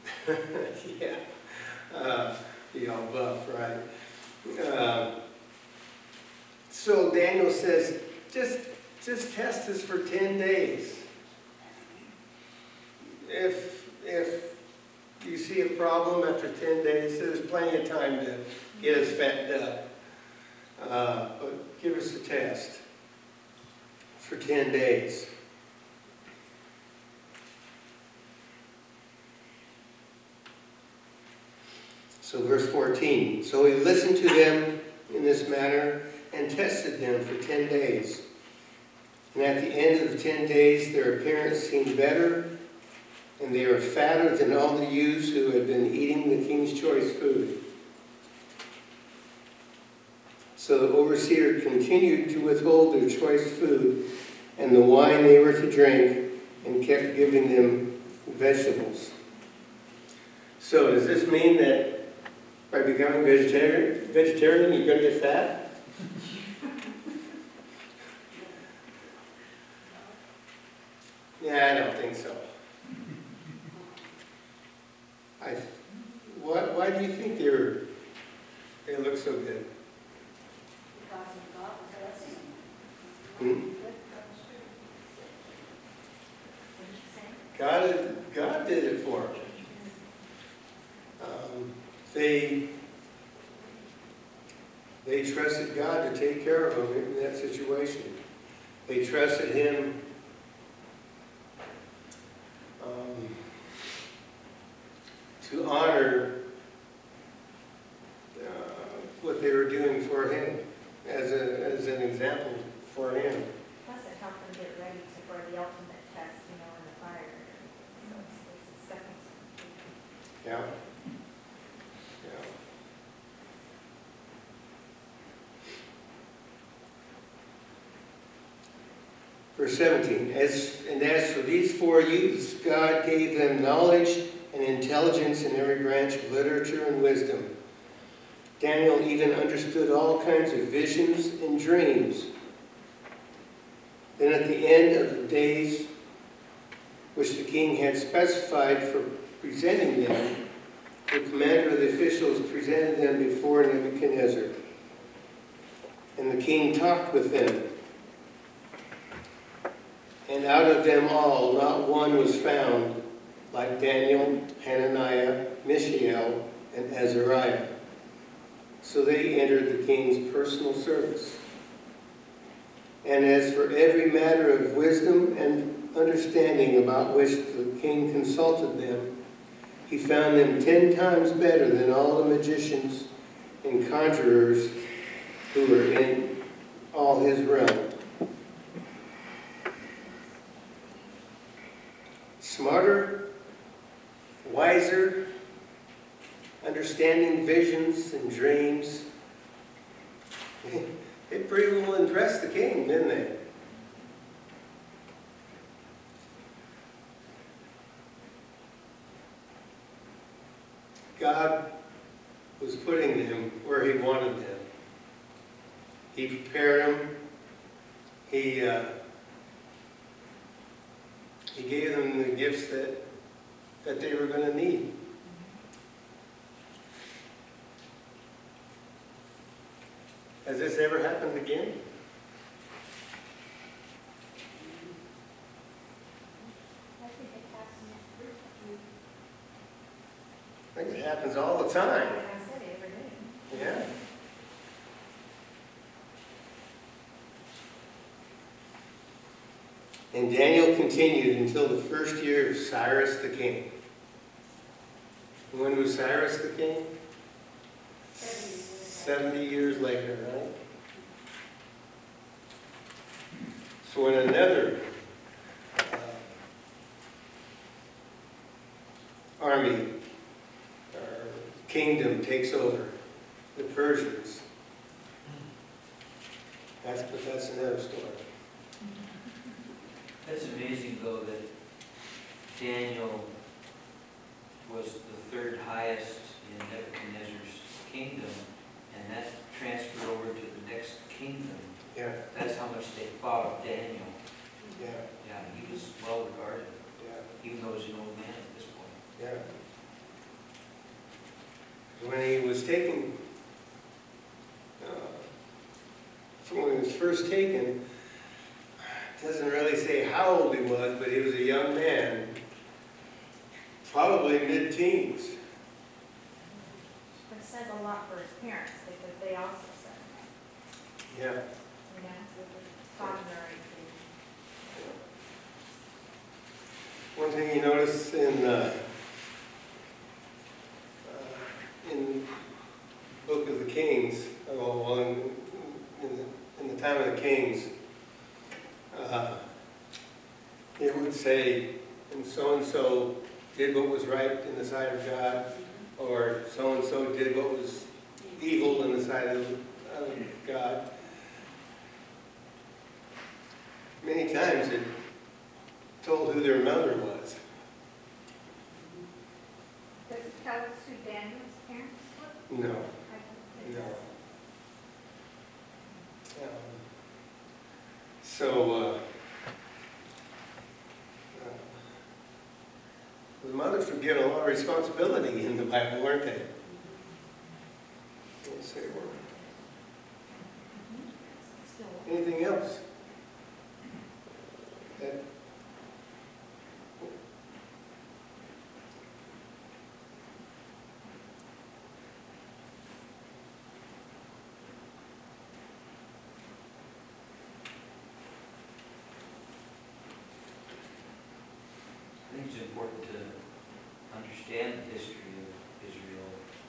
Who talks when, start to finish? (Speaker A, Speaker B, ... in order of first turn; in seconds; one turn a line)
Speaker A: 0.3-3.8
Speaker A: 4.4-5.1
Speaker A: 6.7-11.1
Speaker A: 13.0-14.6
Speaker A: 15.2-19.8
Speaker A: 20.8-22.8
Speaker A: 24.2-25.3
Speaker A: 32.2-38.2
Speaker A: 39.3-42.5
Speaker A: 43.4-47.6
Speaker A: 50.6-54.0
Speaker A: 54.6-59.1
Speaker A: 60.6-61.9
Speaker A: 62.7-65.6
Speaker A: 71.4-72.4
Speaker B: 73.7-74.1
Speaker A: 75.4-77.8
Speaker A: 78.8-79.7
Speaker B: 80.9-83.7
Speaker A: 83.4-83.7
Speaker C: 83.9-84.4
Speaker C: 86.8-87.4
Speaker A: 87.5-89.3
Speaker C: 89.3-89.9
Speaker A: 91.2-92.6
Speaker A: 95.0-98.2
Speaker A: 98.9-100.0
Speaker A: 102.8-103.4
Speaker A: 105.4-106.3
Speaker A: 108.3-113.5
Speaker C: 113.8-119.9
Speaker A: 120.4-120.7
Speaker A: 122.2-122.5
Speaker A: 129.6-137.5
Speaker A: 138.6-142.3
Speaker A: 144.2-145.9
Speaker A: 147.1-150.4
Speaker A: 151.1-154.5
Speaker A: 156.2-157.6
Speaker A: 160.3-162.9
Speaker A: 163.5-167.7
Speaker A: 168.8-171.4
Speaker A: 173.0-179.1
Speaker A: 179.9-183.1
Speaker A: 183.6-184.7
Speaker A: 185.5-186.4
Speaker A: 186.9-187.9
Speaker A: 192.4-193.2
Speaker A: 194.4-195.2
Speaker A: 196.6-199.1
Speaker A: 200.6-203.3
Speaker A: 211.2-211.6
Speaker A: 212.6-214.6
Speaker A: 216.1-217.1
Speaker A: 218.3-219.0
Speaker A: 221.6-223.0
Speaker A: 223.8-224.9
Speaker A: 230.4-231.8
Speaker B: 234.5-235.0
Speaker D: 237.0-238.8
Speaker A: 240.8-242.2
Speaker C: 242.0-243.3
Speaker A: 243.5-243.9
Speaker A: 250.1-253.7
Speaker A: 255.5-256.9
Speaker B: 258.2-259.8
Speaker A: 258.8-260.5
Speaker A: 263.8-264.9
Speaker A: 265.8-266.3
Speaker A: 269.4-269.9
Speaker A: 270.9-273.0
Speaker A: 273.6-274.4
Speaker A: 276.8-278.2
Speaker E: 280.2-281.5
Speaker E: 282.5-283.3
Speaker E: 284.6-291.8
Speaker A: 291.9-292.2
Speaker E: 292.3-294.2
Speaker A: 294.8-295.0
Speaker E: 295.2-296.8
Speaker A: 297.0-297.3
Speaker E: 297.4-299.0
Speaker A: 299.2-299.4
Speaker A: 301.9-303.1
Speaker A: 304.8-305.3
Speaker A: 306.4-307.8
Speaker A: 309.2-312.4
Speaker A: 313.8-315.4
Speaker C: 317.3-320.3
Speaker A: 321.1-321.4
Speaker C: 321.9-324.0
Speaker A: 327.2-328.8
Speaker A: 331.0-332.3
Speaker A: 333.2-337.7
Speaker A: 338.9-339.4
Speaker A: 340.8-350.9
Speaker A: 354.0-354.9
Speaker A: 356.0-357.4
Speaker B: 358.7-359.1
Speaker D: 360.1-364.1
Speaker A: 362.5-362.9
Speaker A: 363.6-364.0
Speaker A: 366.4-366.8
Speaker A: 368.2-369.0
Speaker A: 371.3-371.8
Speaker A: 373.4-376.5
Speaker B: 376.7-377.0
Speaker A: 378.4-379.2
Speaker C: 380.8-382.2
Speaker A: 382.1-382.8
Speaker E: 402.2-403.4
Speaker E: 404.1-406.4